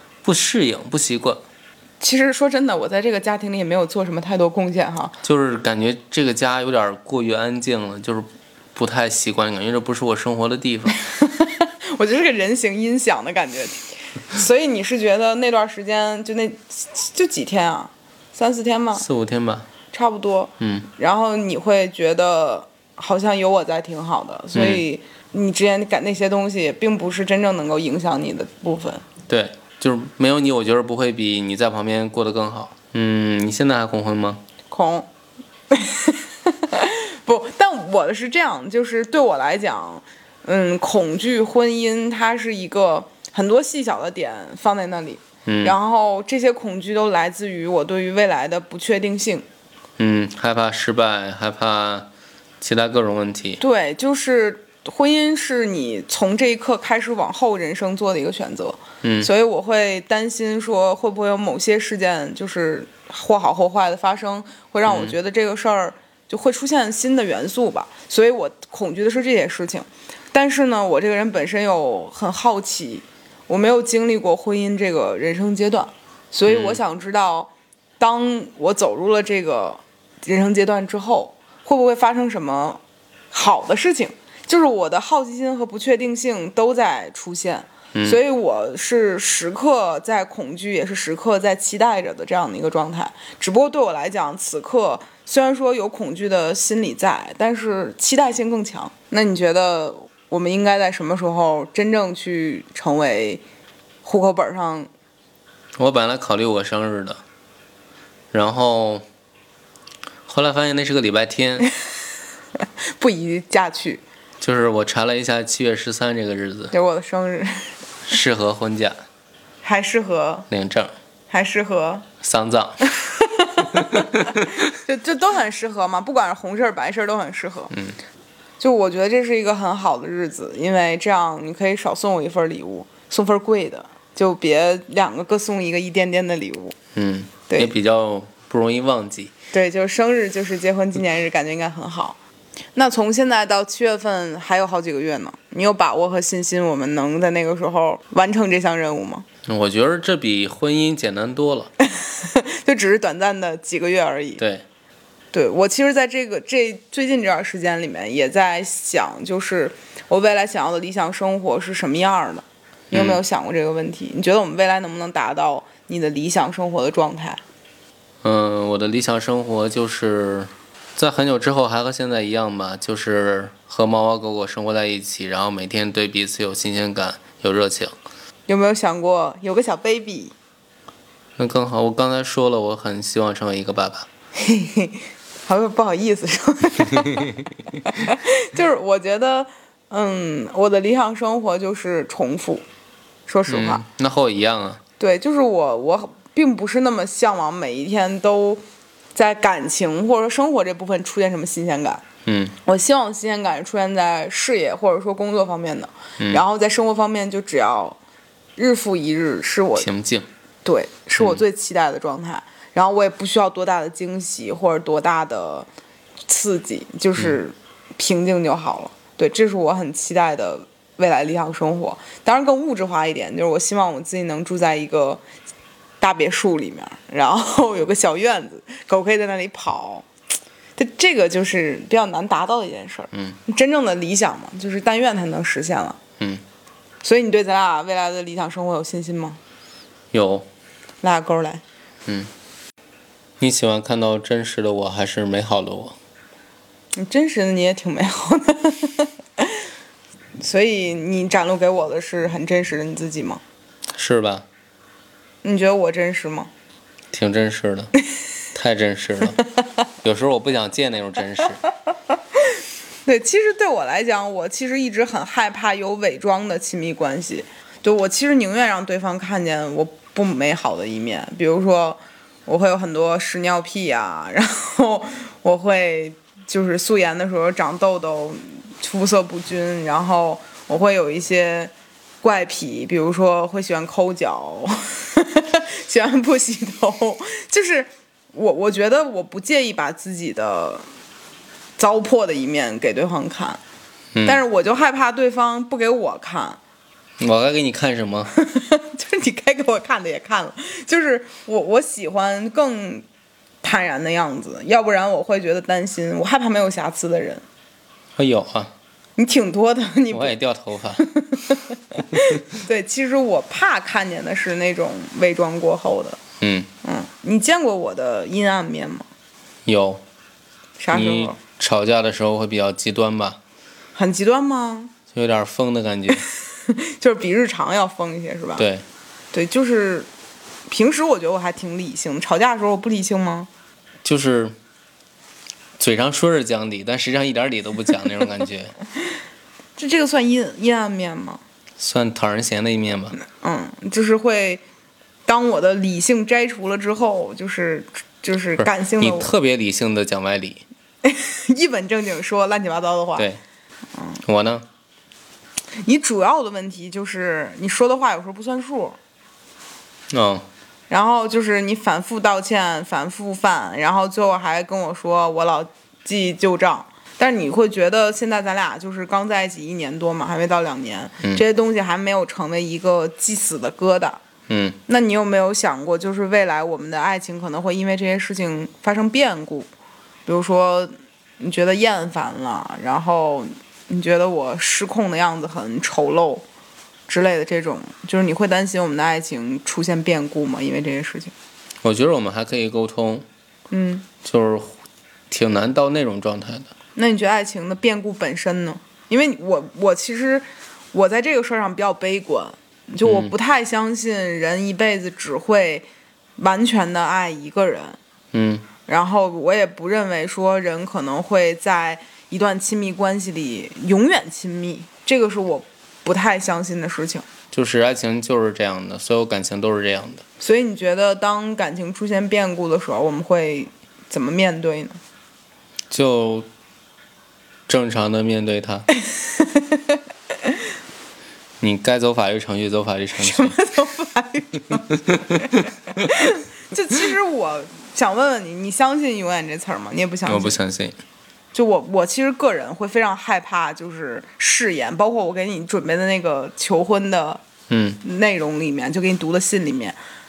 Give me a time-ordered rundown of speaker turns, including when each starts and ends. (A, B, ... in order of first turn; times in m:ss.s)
0:00.2-0:01.4 A
0:02.0-0:05.1 B
0:05.2-0:11.0 A
0:11.0-0:19.0 B
0:18.9-0:19.7 A
0:19.9-0:29.0 B
0:20.6-0:20.9 A
0:24.5-0:24.8 A
0:29.3-0:34.4 A
0:34.7-0:35.1 B
0:35.7-0:49.4 B
0:45.4-0:45.8 A
0:50.0-0:52.1 A
0:52.6-0:53.6 A
0:53.6-1:22.8 B
0:59.0-0:59.3 A
1:04.8-1:05.2 A
1:16.5-1:16.8 A
1:23.3-1:43.4 B
1:27.9-1:28.2 A
1:44.0-1:44.9 B
1:45.8-1:47.2 A
1:48.3-1:49.0 A
1:50.3-1:51.7 A
1:53.0-1:54.0 B
1:54.4-1:56.7 A
1:56.7-1:57.7 B
1:58.1-1:59.0 A
1:59.6-2:00.5 B
2:00.5-2:00.9 A
2:01.3-2:02.1 B
2:02.2-2:02.8 A
2:02.9-2:07.7 B
2:03.7-2:04.4 A
2:07.7-2:08.0 A
2:08.6-2:16.7 B
2:16.9-2:19.3 A
2:19.5-2:22.2 B
2:22.7-2:29.2 B
2:29.5-2:31.7 A
2:31.8-2:34.4 B
2:34.4-2:34.6 A
2:35.3-2:47.4 B
2:42.9-2:43.2 A
2:48.2-2:57.9 A
2:58.5-3:00.3 B
3:01.4-3:04.1 A
3:04.4-3:12.6 B
3:13.3-3:13.8 B
3:13.5-3:14.8 A
3:15.0-3:18.6 B
3:19.1-3:22.0 B
3:22.2-3:22.6 A
3:22.6-3:28.0 B
3:26.2-3:26.4 A
3:28.6-3:29.9 B
3:29.8-3:30.3 A
3:30.6-3:35.7 B
3:36.3-3:45.2 B
3:46.0-3:50.1 B
3:50.8-3:56.0 B
3:53.1-3:53.4 A
3:57.0-3:59.4 B
4:00.1-4:00.5 A
4:01.0-4:01.6 B
4:03.4-4:06.0 A
4:06.9-4:09.6 B
4:10.4-4:13.4 B
4:13.9-4:14.4 A
4:15.4-4:16.5 B
4:17.1-4:17.9 A
4:18.5-4:19.4 A
4:20.0-4:21.6 A
4:23.0-4:50.8 B
4:51.8-4:53.6 B
4:54.1-4:54.4 A
4:54.2-4:56.6 B
4:57.2-4:58.3 A
4:58.4-5:03.0 B
5:03.6-5:07.4 B
5:08.2-5:08.7 A
5:09.2-5:10.4 B
5:10.1-5:11.0 A
5:11.0-5:16.2 B
5:16.4-5:16.7 A
5:16.8-5:19.1 B
5:19.7-5:20.0 A
5:20.8-5:21.4 B
5:20.9-5:23.4 A
5:24.0-5:24.9 B
5:25.1-5:26.2 A
5:26.7-5:28.6 B
5:28.6-5:28.8 A
5:29.3-5:30.1 B
5:30.7-5:33.5 B
5:34.0-5:34.6 A
5:35.8-5:38.7 A
5:39.8-5:41.4 B
5:41.8-5:43.2 A
5:43.3-5:44.6 B
5:45.2-5:49.3 B
5:48.6-5:50.6 A
5:51.0-5:53.3 B
5:53.2-5:53.4 A
5:54.2-5:54.6 A
5:55.8-5:59.0 B
6:00.1-6:00.4 A
6:00.9-6:14.2 B
6:14.5-6:14.8 A
6:14.9-6:19.7 B
6:20.2-6:26.4 B
6:27.1-6:31.3 B
6:31.8-6:33.2 A
6:33.7-6:34.1 B
6:34.2-6:34.7 A
6:35.3-6:36.7 A
6:36.9-6:45.8 B
6:43.0-6:43.3 A
6:46.4-6:48.0 B
6:48.3-6:48.7 A
6:48.8-6:57.2 B
6:57.5-7:00.2 A
7:00.4-7:05.0 B
7:05.9-7:06.5 A
7:07.7-7:08.9 A
7:09.0-7:10.5 B
7:11.6-7:13.6 A
7:13.2-7:20.6 B
7:15.1-7:15.6 A
7:20.2-7:21.0 A
7:21.5-7:27.4 B
7:27.7-7:28.0 A
7:28.0-7:30.0 B